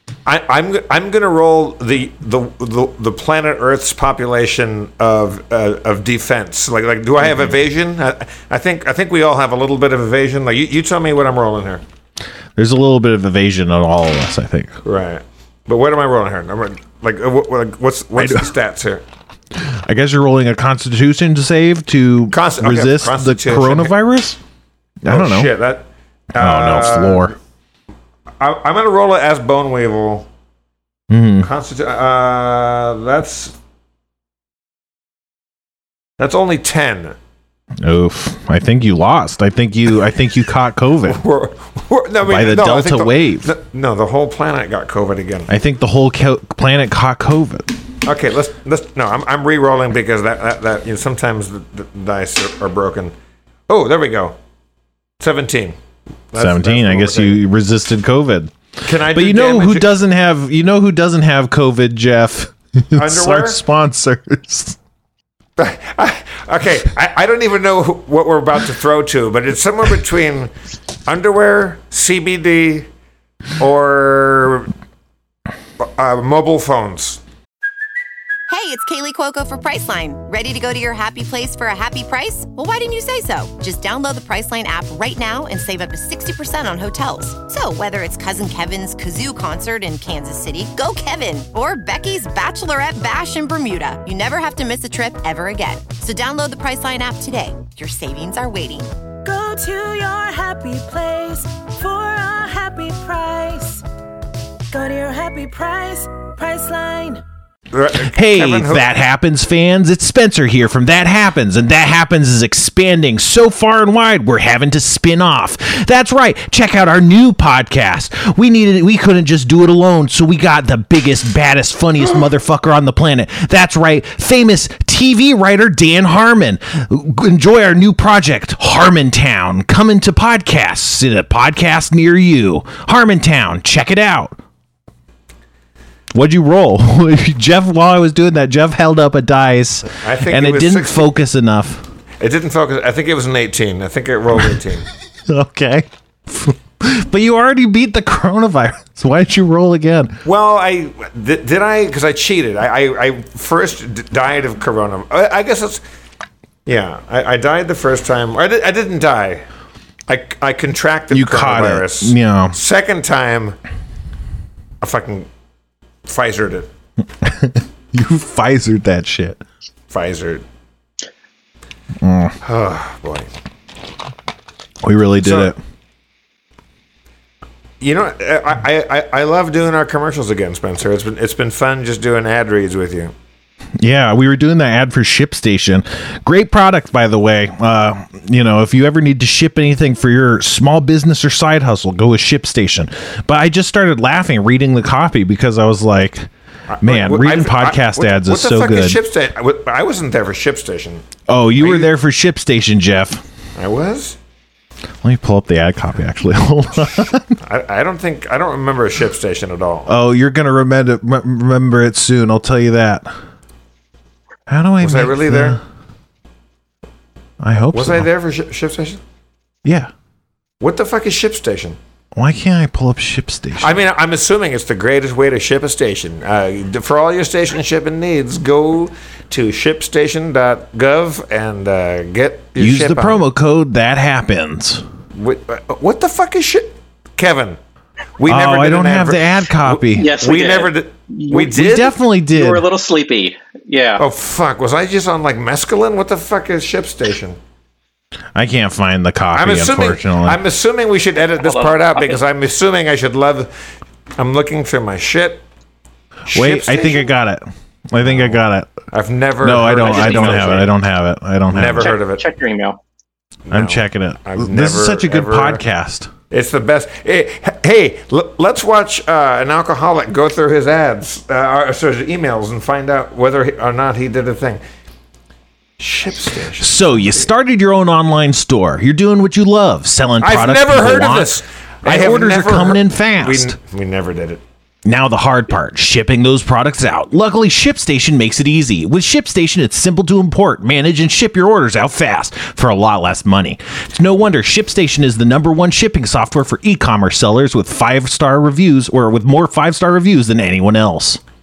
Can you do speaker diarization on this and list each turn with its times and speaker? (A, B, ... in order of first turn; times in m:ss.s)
0:00.2-0:11.8 A
0:12.5-0:14.8 B
0:14.8-0:19.0 A
0:18.2-0:18.5 B
0:19.5-0:24.4 B
0:22.3-0:24.0 A
0:25.0-0:25.5 B
0:25.0-0:27.4 A
0:26.4-0:27.3 B
0:28.4-0:30.3 A
0:31.1-0:31.5 B
0:31.4-0:33.6 A
0:36.2-0:37.2 A
0:37.8-0:41.2 B
0:41.0-0:45.5 A
0:42.2-0:43.5 B
0:45.5-0:47.7 B
0:48.0-0:53.1 A
0:53.7-0:54.4 A
0:55.2-0:55.8 A
0:56.3-0:57.4 A
0:56.3-1:04.8 B
0:58.8-0:59.9 A
1:02.9-1:03.6 A
1:05.6-1:10.5 A
1:11.1-1:12.9 A
1:13.6-1:14.7 A
1:15.8-1:17.2 A
1:18.5-1:38.9 C
1:39.2-1:43.8 D
1:44.7-1:47.2 D
1:47.7-1:48.9 A
1:47.9-2:14.4 B
2:16.1-2:21.9 B
2:19.9-2:21.1 A
2:22.2-2:24.8 A
2:25.3-2:30.2 B
2:30.2-2:35.8 A
2:36.6-2:39.4 A
2:40.1-2:43.6 A
2:41.1-2:42.6 B
2:44.8-2:45.3 A
2:46.0-2:46.7 A
2:47.2-2:49.4 B
2:49.9-2:50.4 A
2:52.0-2:52.4 B
2:52.4-2:53.3 A
2:54.8-2:55.6 B
2:55.2-2:55.5 A
2:57.8-3:03.1 A
3:03.8-3:16.3 B
3:16.7-3:21.0 A
3:16.8-3:19.0 B
3:21.3-3:23.2 B
3:21.6-3:21.9 A
3:23.6-3:24.2 A
3:25.0-3:27.3 B
3:27.4-3:29.9 A
3:29.9-3:33.2 B
3:34.5-3:35.6 B
3:34.8-3:35.6 A
3:37.4-3:38.1 B
3:37.7-3:39.0 A
3:39.6-3:39.9 B
3:40.6-3:41.8 A
3:42.1-3:43.8 B
3:43.6-3:53.2 A
3:52.6-3:54.8 B
3:55.1-3:57.6 A
3:58.2-4:02.0 A
3:58.2-4:00.1 B
3:59.9-4:04.0 E
4:01.3-4:02.6 B
4:04.0-4:07.4 A
4:08.3-4:10.4 B
4:09.3-4:13.5 A
4:11.4-4:12.2 E
4:14.2-4:15.4 A
4:16.3-4:18.8 B
4:16.3-4:17.1 A
4:18.0-4:18.4 A
4:18.9-4:20.7 A
4:19.4-4:22.0 B
4:19.8-4:20.7 E
4:21.5-4:22.2 A
4:21.8-4:22.8 E
4:23.5-4:25.6 A
4:23.5-4:26.1 B
4:26.3-4:34.6 A
4:35.8-4:37.3 A
4:36.6-4:43.6 B
4:40.2-4:44.4 A
4:44.8-5:01.2 B